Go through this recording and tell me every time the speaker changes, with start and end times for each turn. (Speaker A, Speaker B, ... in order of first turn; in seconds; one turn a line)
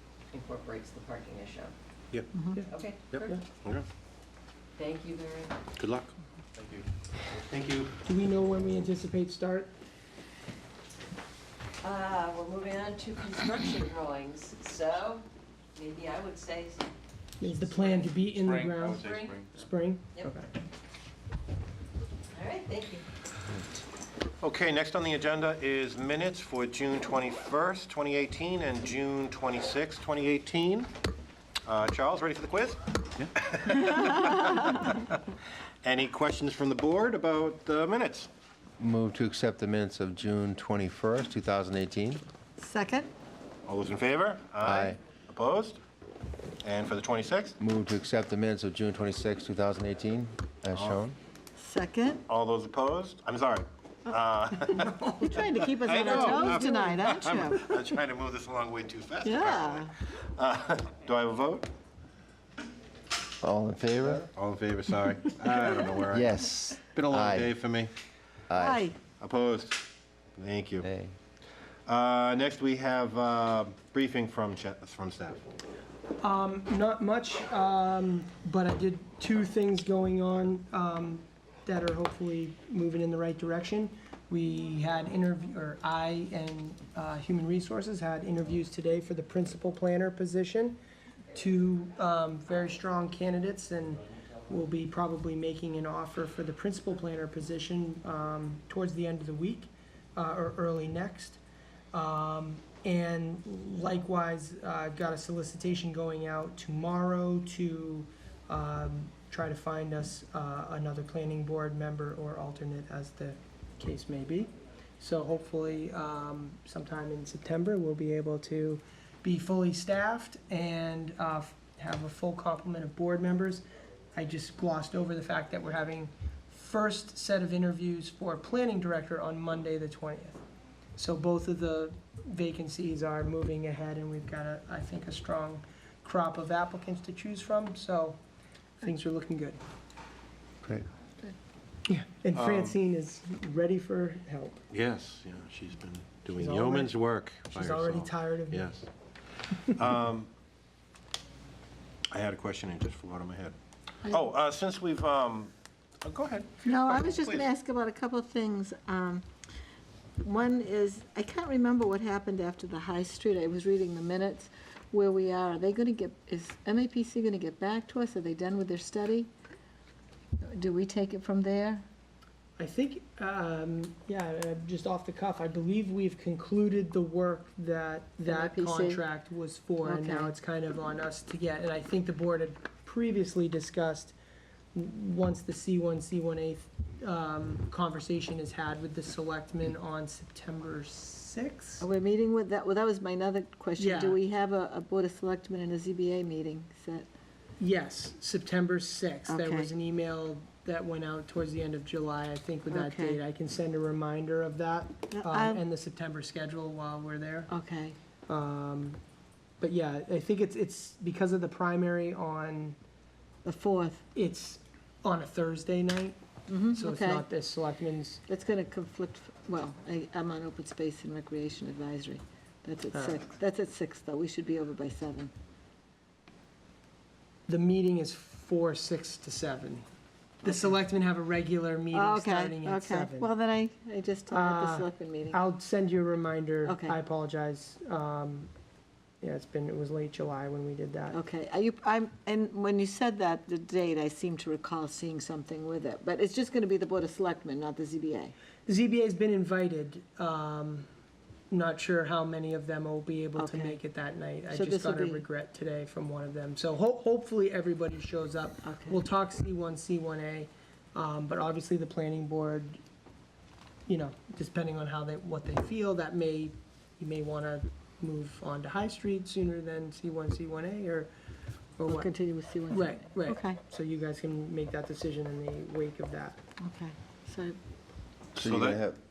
Speaker A: 0.3-1.7
Speaker B: 2.3-2.6
Speaker A: 2.6-3.4
Speaker C: 3.1-3.9
Speaker A: 4.8-5.5
Speaker C: 5.8-8.0
Speaker D: 8.0-9.7
Speaker A: 11.8-15.2
Speaker A: 15.8-16.9
Speaker D: 17.4-19.0
Speaker A: 17.4-18.1
Speaker C: 18.4-19.6
Speaker A: 18.8-19.4
Speaker D: 19.6-20.5
Speaker A: 22.3-23.1
Speaker C: 24.4-30.9
Speaker C: 31.7-35.1
Speaker C: 35.8-38.3
Speaker E: 38.8-42.2
Speaker B: 42.6-43.1
Speaker C: 43.7-45.8
Speaker E: 44.6-45.0
Speaker C: 46.6-47.6
Speaker E: 47.6-51.2
Speaker C: 50.7-51.0
Speaker B: 51.6-52.2
Speaker C: 52.3-61.7
Speaker B: 55.0-57.8
Speaker B: 59.2-59.9
Speaker E: 63.4-64.3
Speaker C: 64.0-67.9
Speaker E: 66.1-67.5
Speaker E: 68.5-68.9
Speaker B: 68.5-69.0
Speaker C: 69.1-69.8
Speaker C: 70.4-70.9
Speaker E: 70.8-71.2
Speaker C: 71.9-75.4
Speaker D: 76.2-90.8
Speaker D: 91.3-101.4
Speaker D: 101.9-130.4
Speaker D: 131.0-138.2
Speaker D: 138.8-139.6
Speaker E: 140.6-140.9
Speaker D: 141.9-144.6
Speaker C: 142.3-142.8
Speaker C: 144.7-148.8
Speaker D: 146.3-146.9
Speaker D: 147.5-148.8
Speaker C: 149.8-150.3
Speaker C: 152.1-153.6
Speaker C: 154.1-155.5
Speaker C: 156.0-157.5
Speaker B: 156.6-159.3
Speaker B: 160.2-169.3
Speaker B: 170.4-171.8
Speaker D: 172.6-184.2
Speaker B: 178.2-179.1
Speaker B: 179.8-180.4
Speaker D: 184.7-191.8
Speaker B: 191.8-197.1
Speaker D: 193.8-194.2
Speaker D: 197.6-207.5
Speaker B: 199.3-199.7
Speaker B: 202.7-203.2
Speaker B: 205.1-205.6
Speaker B: 207.5-208.0
Speaker D: 208.3-209.0
Speaker D: 209.6-212.8
Speaker B: 213.4-214.1
Speaker D: 214.1-216.2
Speaker B: 216.5-217.3
Speaker D: 216.8-218.2
Speaker B: 218.3-225.3
Speaker D: 222.9-223.2
Speaker D: 227.5-229.8
Speaker B: 230.4-230.8
Speaker D: 230.4-233.3
Speaker B: 231.9-235.4
Speaker D: 234.3-238.5
Speaker B: 236.6-237.0
Speaker D: 239.2-241.2
Speaker B: 241.1-248.3
Speaker D: 248.7-250.9
Speaker D: 251.5-262.8
Speaker B: 253.4-253.9
Speaker B: 254.5-255.2
Speaker B: 258.6-259.0
Speaker D: 263.9-271.1
Speaker D: 271.8-272.1
Speaker B: 271.9-273.6
Speaker D: 272.7-276.4
Speaker B: 276.6-277.6
Speaker E: 278.4-279.0
Speaker C: 278.4-278.8